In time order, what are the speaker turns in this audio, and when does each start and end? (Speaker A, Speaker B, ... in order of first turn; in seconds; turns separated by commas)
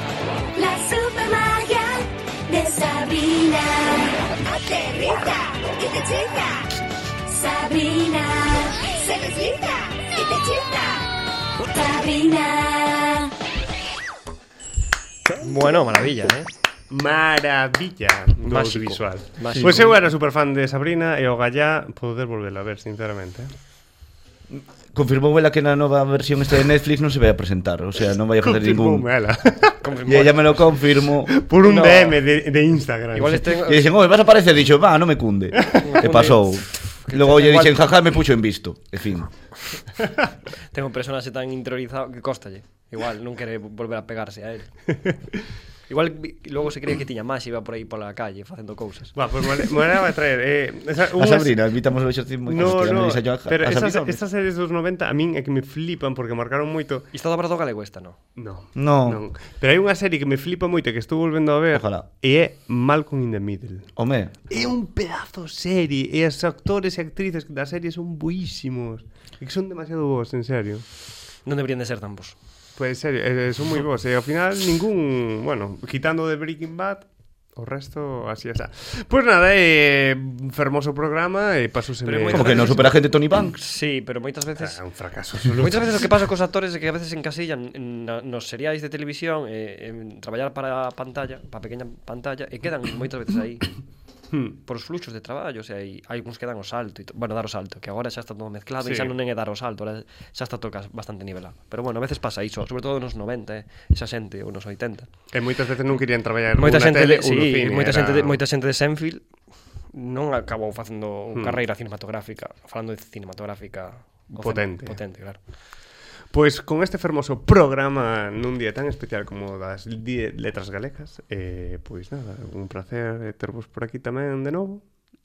Speaker A: 0.5-6.6, Speaker A: 7.2-11.0, Speaker A: 11.6-13.3, Speaker B: 15.4-16.5, Speaker C: 16.9-23.5, Speaker B: 18.4-20.1, Speaker D: 24.5-29.1, Speaker C: 28.4-29.8, Speaker B: 29.8-30.8, Speaker D: 30.0-31.3, Speaker C: 31.3-33.5, Speaker B: 31.6-32.2, Speaker B: 33.1-33.9, Speaker D: 33.6-39.3, Speaker B: 35.8-38.0, Speaker B: 40.7-44.8, Speaker B: 45.9-49.1, Speaker C: 49.1-51.5, Speaker D: 51.1-54.2, Speaker C: 52.5-57.1, Speaker B: 57.1-58.2, Speaker C: 58.4-63.9, Speaker D: 58.8-59.2, Speaker D: 61.7-62.0, Speaker D: 64.0-64.4, Speaker C: 64.5-70.8, Speaker B: 71.5-72.3, Speaker C: 72.8-82.9, Speaker B: 82.0-84.8, Speaker D: 82.3-83.6, Speaker C: 84.6-86.0, Speaker B: 85.6-93.7, Speaker B: 94.5-105.2, Speaker C: 98.8-99.1, Speaker C: 105.3-108.4, Speaker B: 106.5-109.3, Speaker B: 109.9-115.4, Speaker C: 114.3-115.0, Speaker C: 116.3-124.8